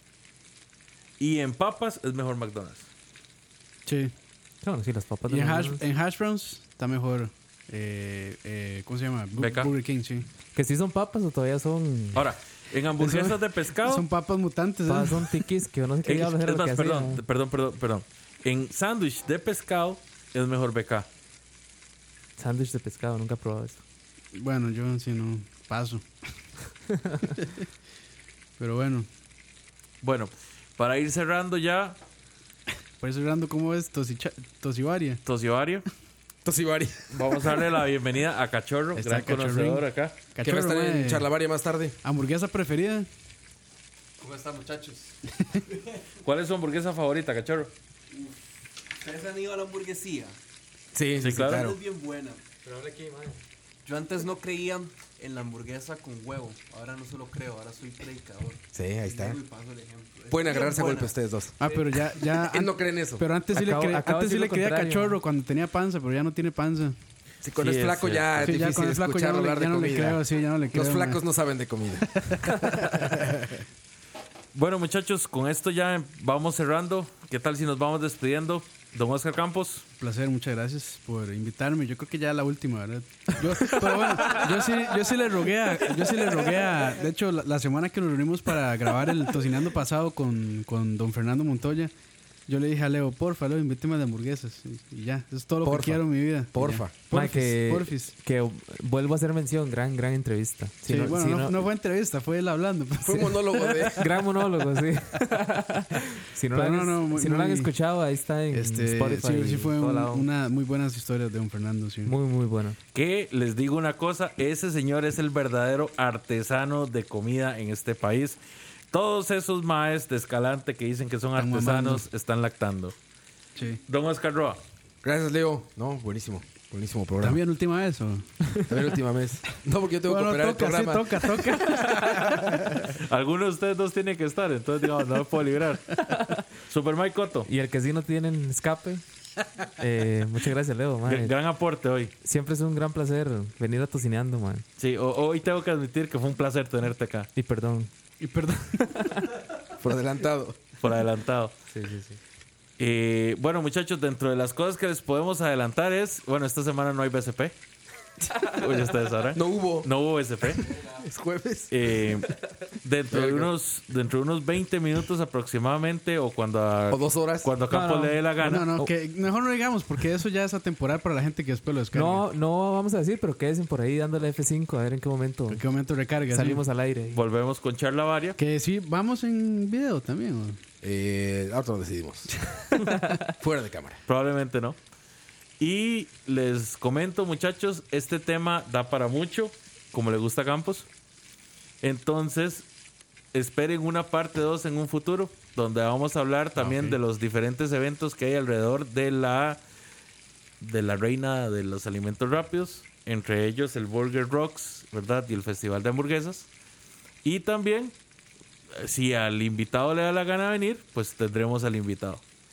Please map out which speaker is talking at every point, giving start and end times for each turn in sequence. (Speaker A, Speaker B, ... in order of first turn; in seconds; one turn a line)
Speaker A: 1.2-2.9
Speaker B: 3.9-4.1
Speaker C: 4.6-5.8
Speaker B: 5.3-10.3
Speaker A: 9.4-9.7
Speaker C: 10.5-12.3
Speaker A: 12.2-14.1
Speaker B: 13.0-15.5
Speaker C: 14.9-17.2
Speaker A: 16.1-21.1
Speaker C: 22.4-23.8
Speaker B: 24.3-26.1
Speaker B: 28.6-29.1
Speaker A: 30.0-32.0
Speaker B: 33.0-35.2
Speaker A: 35.3-35.9
Speaker D: 36.5-37.5
Speaker A: 37.1-40.2
Speaker B: 39.0-41.3
Speaker D: 40.4-42.0
Speaker B: 42.0-43.1
Speaker E: 44.2-46.1
Speaker A: 46.2-47.7
Speaker E: 48.1-48.4
Speaker E: 49.0-50.4
Speaker D: 50.9-51.8
Speaker A: 51.2-51.7
Speaker E: 51.4-61.1
Speaker D: 58.7-59.4
Speaker D: 60.3-61.6
Speaker B: 61.6-67.0
Speaker D: 62.5-63.2
Speaker C: 63.5-65.2
Speaker D: 67.4-73.3
Speaker A: 67.6-68.5
Speaker B: 68.4-71.2
Speaker B: 72.2-73.1
Speaker A: 74.5-79.8
Speaker B: 80.0-91.9
Speaker B: 92.5-98.1
Speaker D: 95.6-96.9
Speaker C: 97.1-101.6
Speaker B: 100.9-103.9
Speaker D: 103.0-104.1
Speaker C: 103.9-110.3
Speaker B: 106.5-107.7
Speaker B: 108.5-112.1
Speaker C: 112.0-112.8
Speaker A: 112.9-118.4
Speaker A: 118.9-123.0
Speaker B: 121.4-122.0
Speaker B: 123.6-123.8
Speaker A: 123.9-124.6
Speaker D: 125.0-127.4
Speaker B: 127.2-128.3
Speaker D: 128.6-132.8
Speaker B: 130.0-132.8
Speaker A: 133.0-136.1
Speaker C: 136.1-136.4
Speaker A: 136.7-137.5
Speaker C: 137.5-139.0
Speaker C: 139.8-141.3
Speaker A: 141.1-142.1
Speaker C: 142.2-144.7
Speaker A: 144.8-147.3
Speaker C: 147.4-147.9
Speaker B: 148.2-149.3
Speaker D: 149.8-150.6
Speaker A: 150.8-151.5
Speaker C: 151.7-152.2
Speaker A: 152.8-157.5
Speaker A: 158.4-160.7
Speaker D: 159.3-159.9
Speaker D: 160.6-161.9
Speaker A: 161.7-168.7
Speaker D: 163.1-163.5
Speaker D: 166.9-167.5
Speaker C: 167.7-168.9
Speaker B: 168.4-172.3
Speaker C: 171.9-175.6
Speaker B: 175.5-176.7
Speaker C: 176.3-177.2
Speaker A: 177.1-178.4
Speaker B: 178.4-180.6
Speaker D: 180.8-182.3
Speaker D: 183.4-184.0
Speaker A: 184.1-184.8
Speaker A: 185.6-190.9
Speaker A: 191.8-192.7
Speaker A: 193.3-199.6
Speaker D: 196.6-196.9
Speaker A: 200.6-206.5
Speaker A: 207.2-207.9
Speaker A: 208.8-212.2